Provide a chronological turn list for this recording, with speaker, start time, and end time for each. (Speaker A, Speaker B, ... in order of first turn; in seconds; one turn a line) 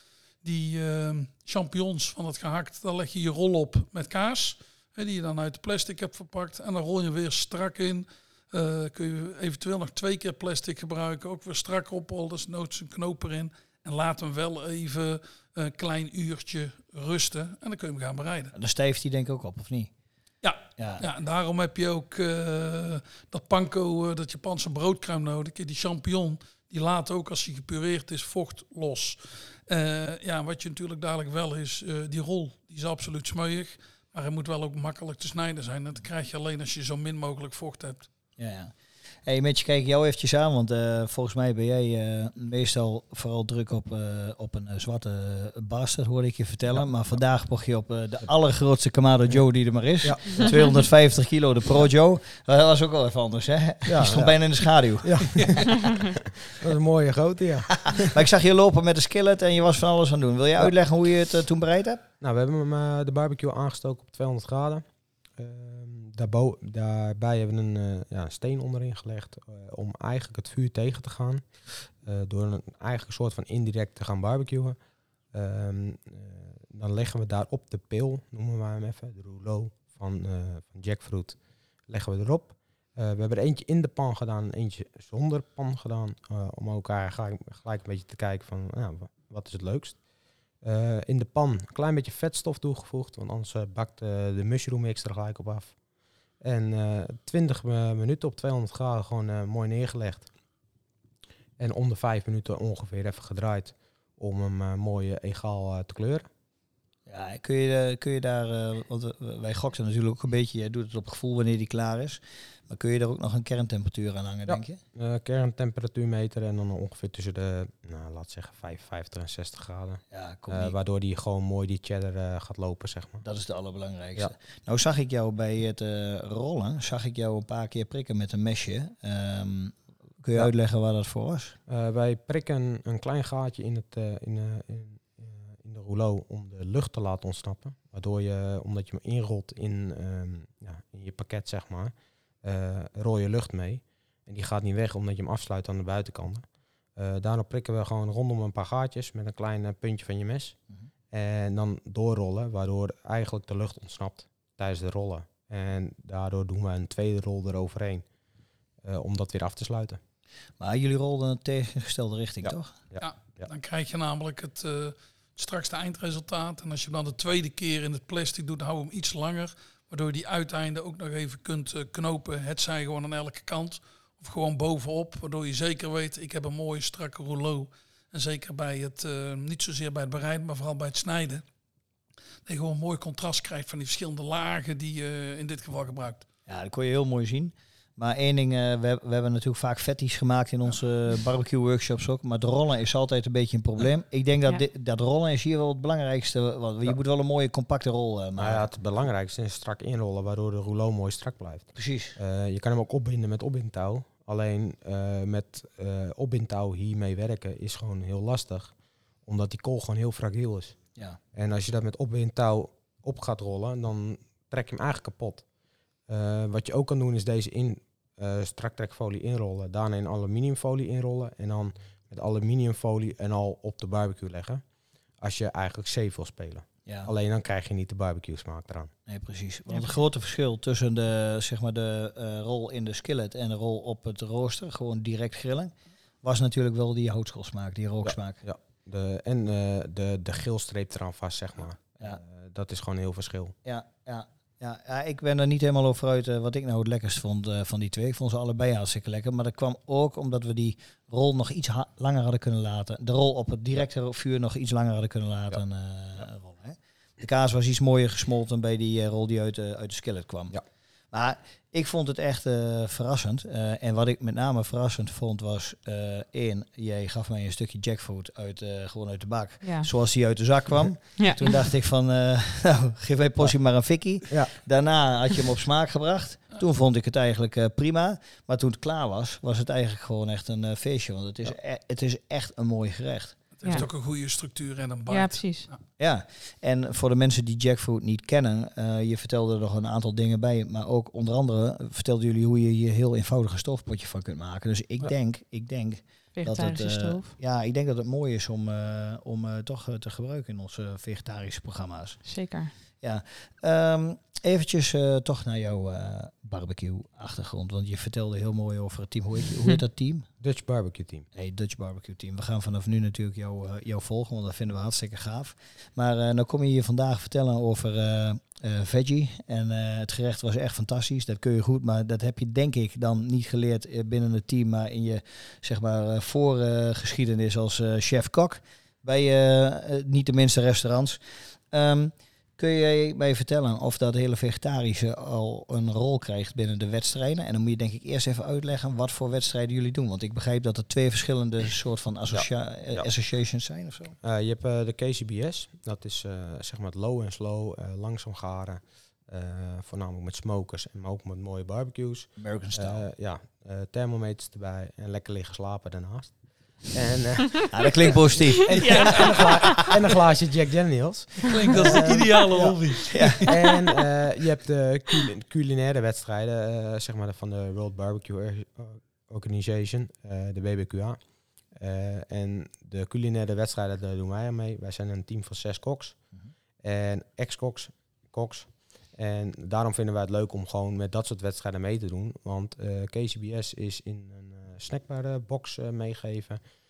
Speaker A: 0.4-18.5
Speaker B: 18.5-19.9
Speaker A: 20.4-38.1
Speaker B: 20.8-21.0
Speaker B: 38.4-55.7
Speaker C: 46.7-47.2
Speaker C: 50.0-50.4
Speaker C: 53.9-58.1
Speaker B: 57.9-62.0
Speaker C: 62.2-74.8
Speaker C: 75.3-90.0
Speaker C: 90.6-95.8
Speaker C: 96.4-100.3
Speaker C: 101.6-106.3
Speaker B: 107.1-114.8
Speaker C: 114.5-123.2
Speaker B: 120.1-120.8
Speaker B: 123.2-131.5
Speaker C: 131.7-150.6
Speaker C: 151.1-158.1
Speaker C: 158.8-160.0
Speaker B: 160.6-162.8
Speaker C: 162.4-163.5
Speaker A: 163.0-181.4
Speaker A: 182.4-186.2
Speaker B: 186.5-198.7
Speaker C: 198.4-210.8
Speaker B: 201.7-202.2
Speaker C: 211.3-215.4
Speaker C: 216.1-224.6
Speaker C: 225.2-228.9
Speaker B: 226.8-227.1
Speaker B: 229.1-238.4
Speaker D: 229.7-229.9
Speaker C: 238.0-243.6
Speaker B: 243.6-283.9
Speaker D: 269.6-269.9
Speaker D: 271.2-271.5
Speaker C: 274.3-274.5
Speaker A: 283.6-285.8
Speaker D: 285.1-285.7
Speaker B: 286.0-302.2
Speaker D: 296.3-297.4
Speaker D: 302.2-302.7
Speaker B: 303.0-310.3
Speaker C: 310.4-311.3
Speaker B: 311.3-344.1
Speaker C: 342.3-343.1
Speaker C: 344.2-386.6
Speaker B: 352.4-353.1
Speaker B: 357.7-359.5
Speaker D: 358.8-359.8
Speaker A: 361.5-363.5
Speaker B: 363.1-363.5